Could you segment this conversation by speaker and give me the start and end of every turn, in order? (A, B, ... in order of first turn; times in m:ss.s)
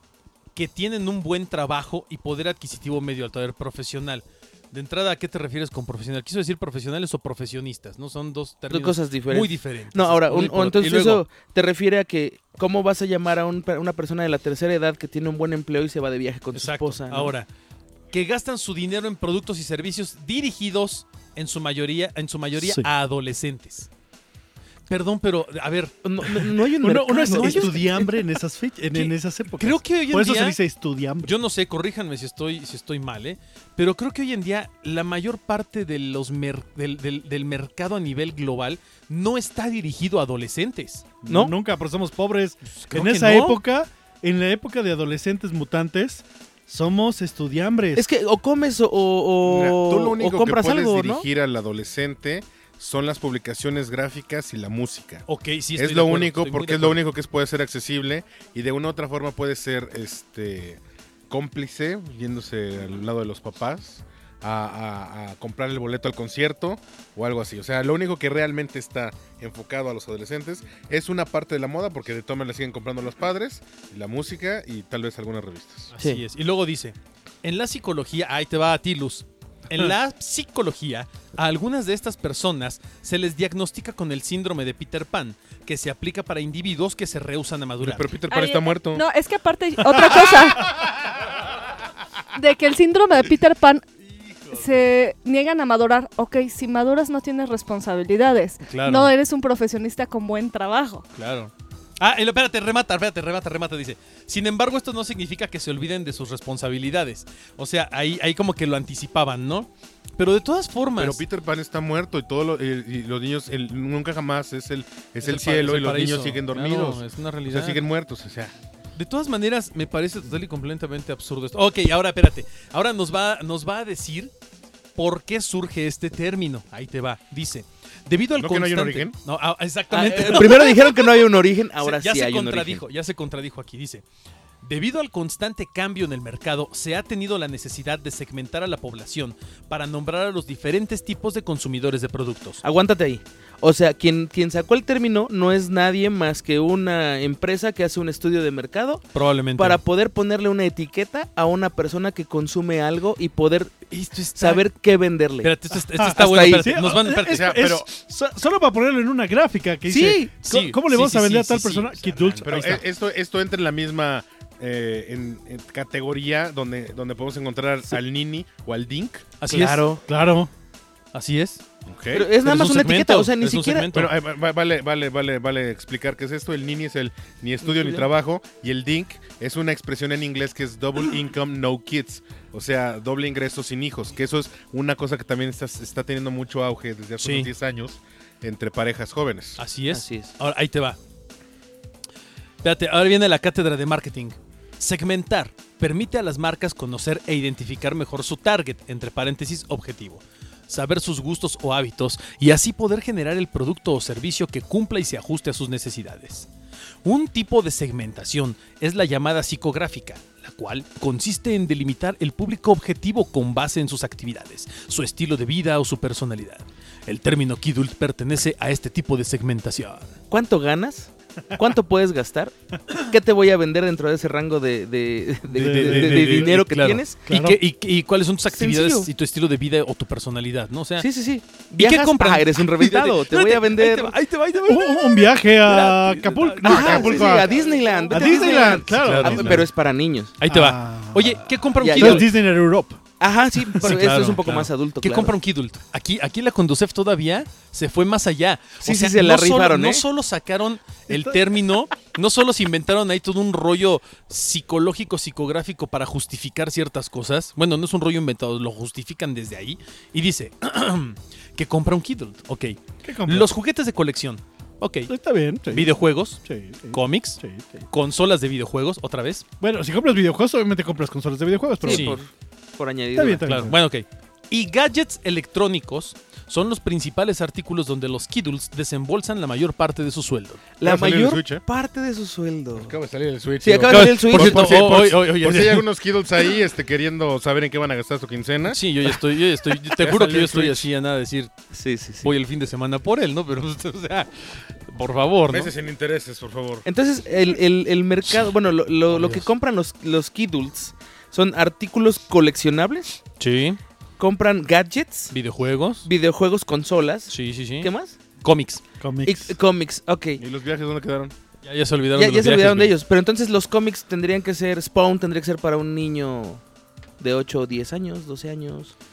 0:00.6-0:11.2 A
0:08.7-0:17.3 B
0:16.5-0:17.5 A
0:18.1-0:23.9 A
0:22.6-0:22.9 C
0:24.9-0:26.5 A
0:26.0-0:28.1 B
0:26.8-0:31.3 C
0:27.2-0:28.2 A
0:28.9-0:30.6 A
0:31.2-0:41.1 A
0:41.2-0:48.0 C
0:41.3-0:41.6 B
0:42.8-0:43.6 A
0:48.0-0:51.3 B
0:49.4-0:55.2 D
0:55.3-0:57.0 A
0:55.8-1:15.9 D
1:15.9-1:28.1 A
1:27.8-1:29.0 D
1:28.3-1:30.8 E
1:29.9-1:30.1 C
1:32.3-1:33.8 E
1:34.1-1:34.6 A
1:34.5-1:41.0 E
1:38.7-1:39.1 A
1:41.2-1:51.2 A
1:51.0-1:58.6 D
1:55.2-1:57.8 A
1:59.0-2:04.3 A
2:05.0-2:11.2 A
2:08.4-2:09.2 D
2:09.9-2:12.8 B
2:11.8-2:14.0 A
2:14.6-2:22.6 A
2:22.6-2:29.0 B
2:29.1-2:29.8 A
2:29.6-2:33.8 B
2:33.9-2:34.6 A
2:34.4-2:35.5 B
2:35.4-2:37.7 A
2:35.7-2:42.8 C
2:36.2-2:36.7 B
2:37.3-2:37.9 D
2:39.9-2:40.3 B
2:40.4-2:42.8 A
2:42.4-2:49.3 D
2:49.4-2:49.9 A
2:49.5-2:50.0 B
2:50.1-2:50.5 C
2:51.1-2:51.6 A
2:51.9-2:52.3 D
2:52.1-2:53.9 B
2:52.4-2:54.1 A
2:53.9-3:09.6 D
2:57.6-2:58.0 B
3:07.2-3:07.5 A
3:09.6-3:11.0 A
3:09.9-3:10.4 B
3:12.6-3:26.5 A
3:27.0-3:40.1 A
3:40.3-3:47.2 B
3:45.5-3:46.5 C
3:45.6-3:51.1 A
3:47.3-3:47.6 C
3:48.5-3:49.1 B
3:51.0-3:54.1 B
3:51.8-3:55.4 A
3:54.7-3:57.5 C
3:55.7-4:00.4 B
3:56.6-3:57.5 D
3:56.7-3:57.0 A
3:58.1-3:59.6 C
3:58.2-3:59.6 D
3:58.9-3:59.6 A
4:00.4-4:02.3 A
4:00.5-4:03.0 C
4:01.8-4:02.3 B
4:03.2-4:05.3 B
4:03.7-4:25.1 A
4:08.8-4:10.0 B
4:23.0-4:23.5 C
4:25.1-4:27.9 C
4:25.7-4:29.4 A
4:29.6-4:32.2 C
4:31.8-4:33.5 B
4:31.8-4:32.2 A
4:33.1-4:33.8 C
4:33.4-4:40.6 A
4:40.8-4:42.9 B
4:40.8-4:41.6 D
4:42.8-4:48.8 D
4:43.6-4:44.9 B
4:43.9-4:45.9 A
4:48.7-4:51.5 A
4:50.0-4:50.9 D
4:51.7-4:52.3 B
4:52.2-4:55.7 A
4:55.5-4:56.9 D
4:56.8-5:03.2 B
4:59.1-4:59.4 A
5:03.4-5:03.8 A
5:04.2-5:05.3 B
5:05.3-5:06.1 A
5:06.0-5:08.2 B
5:07.3-5:07.9 A
5:08.4-5:08.8 A
5:09.0-5:09.5 C
5:09.2-5:10.4 B
5:10.4-5:11.3 D
5:11.6-5:12.9 A
5:12.2-5:16.6 B
5:17.2-5:18.9 B